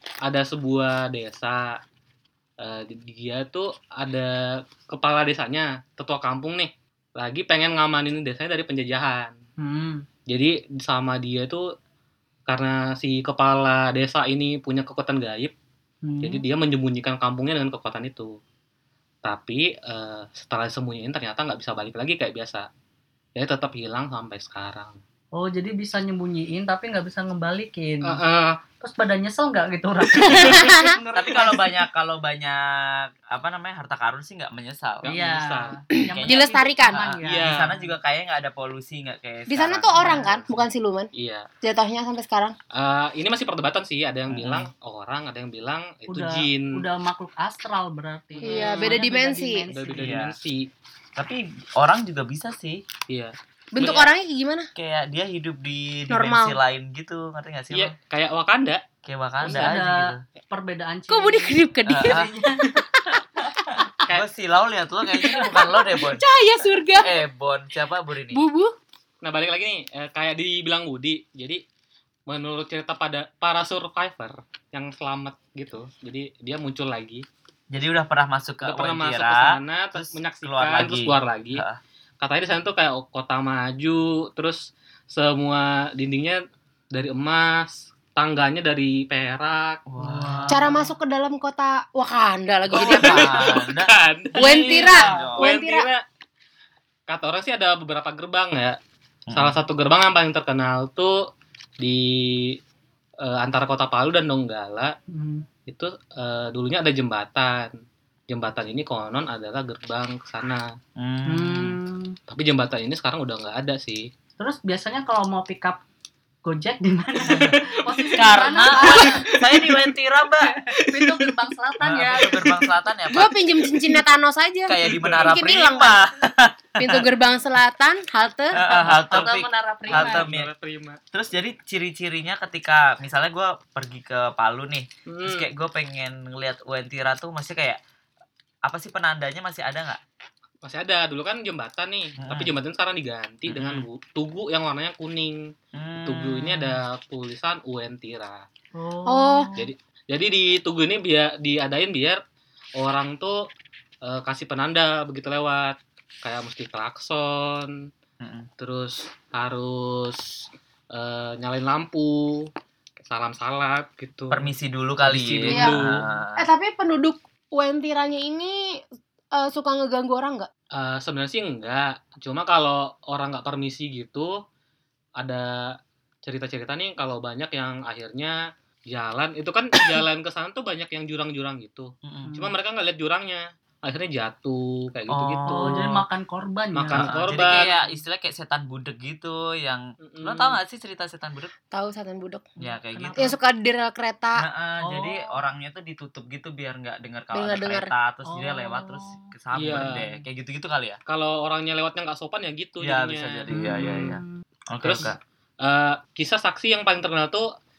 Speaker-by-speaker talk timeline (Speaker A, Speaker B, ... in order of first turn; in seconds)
Speaker A: 0.2-1.8, 2.6-9.3, 10.3-11.7, 12.5-15.5, 16.2-18.4, 19.2-22.7, 23.3-25.0, 28.0-28.6, 35.0-35.8, 37.2-37.7, 41.1-41.5, 42.7-46.8, 48.3-48.9, 49.7-50.7, 53.1-54.1, 57.7-58.8, 59.4-59.7, 69.2-71.6, 72.3-77.2, 78.6-81.6, 82.2-89.8, 92.7-96.0, 97.1-98.8, 99.3-101.3, 101.8-102.6, 103.2-104.9, 105.7-107.7, 108.3-110.7, 112.3-114.1, 117.3-119.2, 120.7-121.3, 124.8-125.3, 129.9-131.0, 135.1-135.4, 140.6-145.5, 146.0-148.5, 149.6-152.2, 152.8-153.5, 154.0-157.8, 158.6-164.5, 165.0-166.0, 170.7-174.4, 175.2-185.9, 186.7-187.7, 190.0-190.6, 199.5-200.0, 201.1-203.5, 204.8-207.5
Speaker B: 9.6-10.1, 16.0-16.4, 25.3-28.2, 28.8-31.8, 35.1-37.9, 40.0-40.3, 46.1-50.2, 59.4-62.8, 90.0-90.8, 105.1-105.5, 111.3-112.2, 114.4-115.8, 116.4-119.7, 120.7-122.7, 128.6-130.2, 148.7-149.7, 182.2-182.5, 185.5-187.2, 192.6-193.4, 194.8-195.4, 198.3-200.2, 203.5-204.3
Speaker C: 30.1-30.9, 36.0-37.0, 39.5-41.1, 41.6-42.5, 48.4-49.7, 53.7-54.7, 56.1-56.5, 61.1-62.9, 65.2-67.2, 68.3-68.7, 90.5-93.4, 94.3-95.9, 123.1-126.0, 126.8-128.6, 149.1-149.5, 165.5-165.8, 166.4-168.8, 169.3-170.5, 191.7-192.4, 193.2-194.4, 197.3-197.9
Speaker D: 31.1-35.1, 36.1-40.6, 44.3-44.7, 50.0-50.3, 51.1-52.8, 53.8-54.0, 54.8-57.9, 59.0-60.2, 61.9-62.3, 64.0-66.2, 67.0-68.4, 77.7-81.8, 89.9-90.7, 92.7-95.5, 99.3-99.6, 111.0-111.8, 117.2-117.6, 118.1-120.6, 121.8-123.3, 124.7-127.0, 128.5-130.5, 131.1-137.8, 138.6-140.0, 142.2-142.5, 143.5-143.8, 145.7-146.8, 158.2-158.5, 164.3-166.4, 182.0-182.3, 185.1-186.0, 186.9-191.5, 192.6-193.2, 194.4-201.0, 202.8-205.2